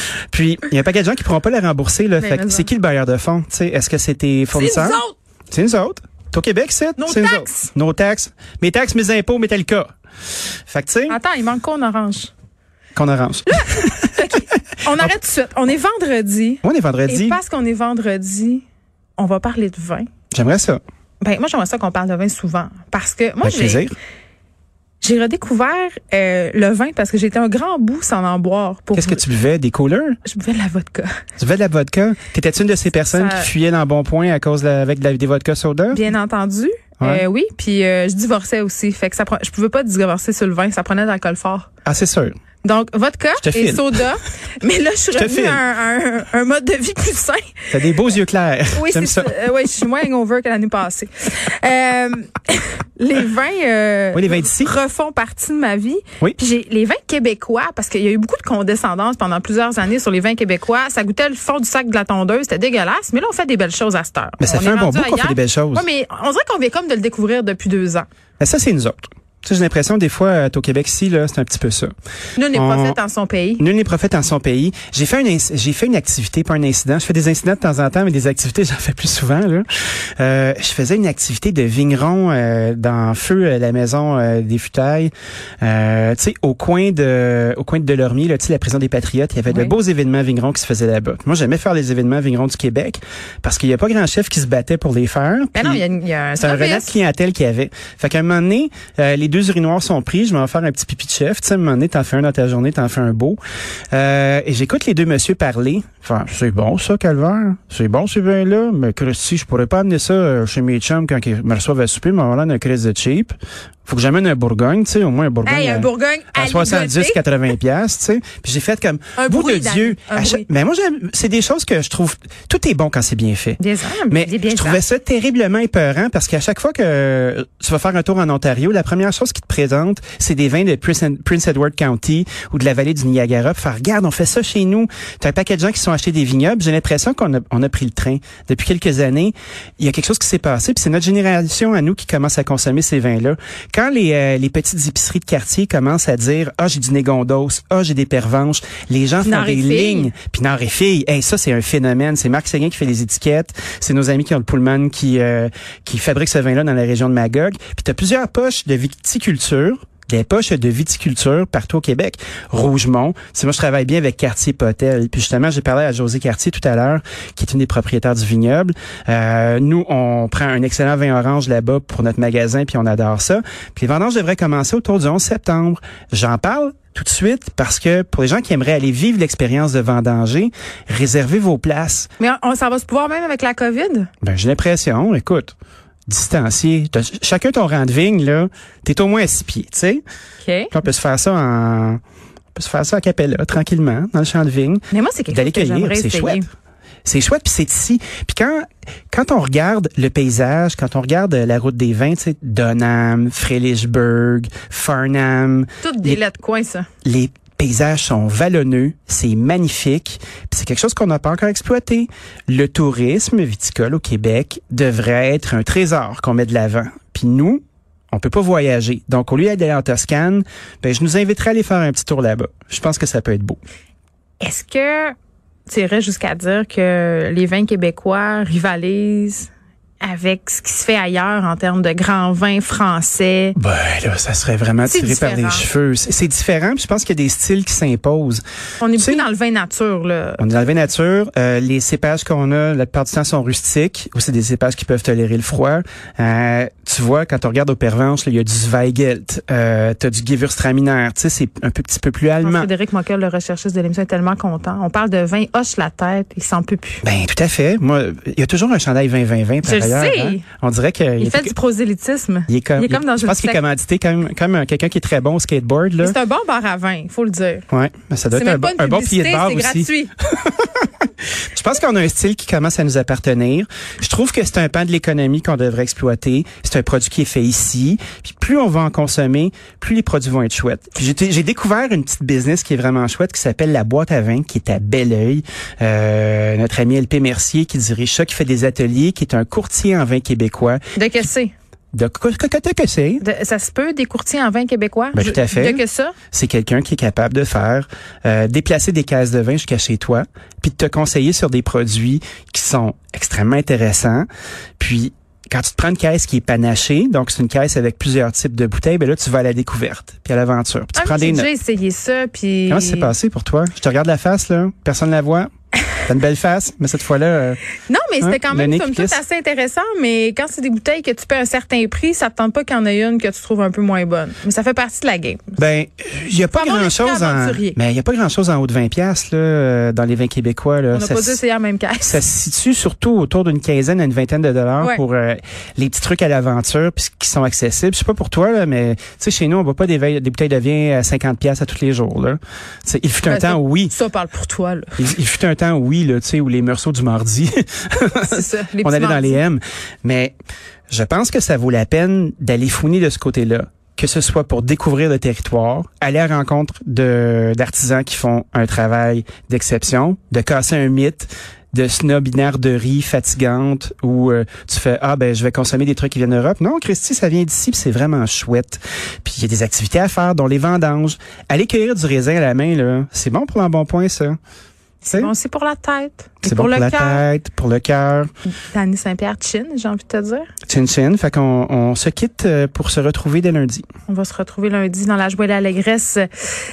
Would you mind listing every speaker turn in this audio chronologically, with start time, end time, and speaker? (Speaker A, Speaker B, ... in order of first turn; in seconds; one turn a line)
Speaker A: 0.3-9.9
Speaker B: 2.2-2.7
Speaker B: 4.5-5.2
Speaker B: 7.0-7.7
Speaker A: 10.7-11.2
Speaker B: 11.1-12.3
Speaker A: 12.9-14.1
Speaker B: 13.5-18.6
Speaker A: 16.6-17.4
Speaker B: 19.2-20.1
Speaker A: 20.3-20.8
Speaker B: 21.2-23.9
Speaker A: 23.4-23.9
Speaker B: 25.0-29.2
Speaker A: 28.9-30.2
Speaker B: 30.2-31.2
Speaker A: 31.4-36.1
Speaker B: 33.1-33.5
Speaker B: 35.9-41.7
Speaker A: 41.9-42.4
Speaker B: 42.6-47.8
Speaker A: 43.4-44.1
Speaker A: 45.1-45.6
Speaker A: 47.7-49.3
Speaker B: 48.7-68.1
Speaker A: 54.1-54.7
Speaker A: 64.4-65.9
Speaker A: 68.4-71.9
Speaker B: 72.4-73.7
Speaker A: 72.5-73.0
Speaker A: 73.6-79.7
Speaker A: 80.2-95.8
Speaker B: 89.5-89.8
Speaker B: 95.5-96.9
Speaker A: 96.4-103.4
Speaker A: 103.9-182.1
Speaker B: 115.4-117.2
Speaker B: 119.2-120.5
Speaker B: 123.6-124.8
Speaker B: 149.2-150.1
Speaker B: 182.2-184.1
Speaker A: 184.2-185.5
Speaker A: 186.1-190.0
Speaker B: 190.4-190.7
Speaker A: 190.7-192.0
Speaker A: 192.5-196.4
Speaker B: 194.9-196.5
Speaker A: 197.1-206.2
Speaker B: 205.8-206.9
Speaker A: 207.0-223.6
Speaker B: 224.4-225.2
Speaker B: 225.7-229.5
Speaker B: 230.0-233.6
Speaker A: 233.6-238.4
Speaker B: 234.8-235.7
Speaker B: 238.8-240.5
Speaker A: 239.0-239.2
Speaker A: 240.4-252.7
Speaker B: 252.4-257.0
Speaker A: 257.0-261.6
Speaker B: 259.6-260.4
Speaker B: 261.2-263.6
Speaker A: 262.5-266.2
Speaker B: 266.0-267.6
Speaker A: 267.7-290.8
Speaker B: 268.3-270.1
Speaker B: 291.0-291.5
Speaker A: 291.9-293.2
Speaker B: 293.2-296.1
Speaker A: 295.1-304.3
Speaker A: 304.8-311.5
Speaker B: 310.9-313.1
Speaker A: 312.7-315.5
Speaker A: 316.0-317.6
Speaker B: 317.9-325.6
Speaker A: 318.2-319.2
Speaker A: 325.6-331.4
Speaker B: 326.5-327.8
Speaker B: 330.9-332.2
Speaker A: 332.0-343.9
Speaker B: 343.2-345.1
Speaker A: 345.0-350.3
Speaker B: 348.2-349.4
Speaker A: 350.9-374.4
Speaker B: 375.0-377.2
Speaker A: 376.4-378.3
Speaker B: 378.7-380.5
Speaker A: 380.7-383.9
Speaker B: 384.1-386.3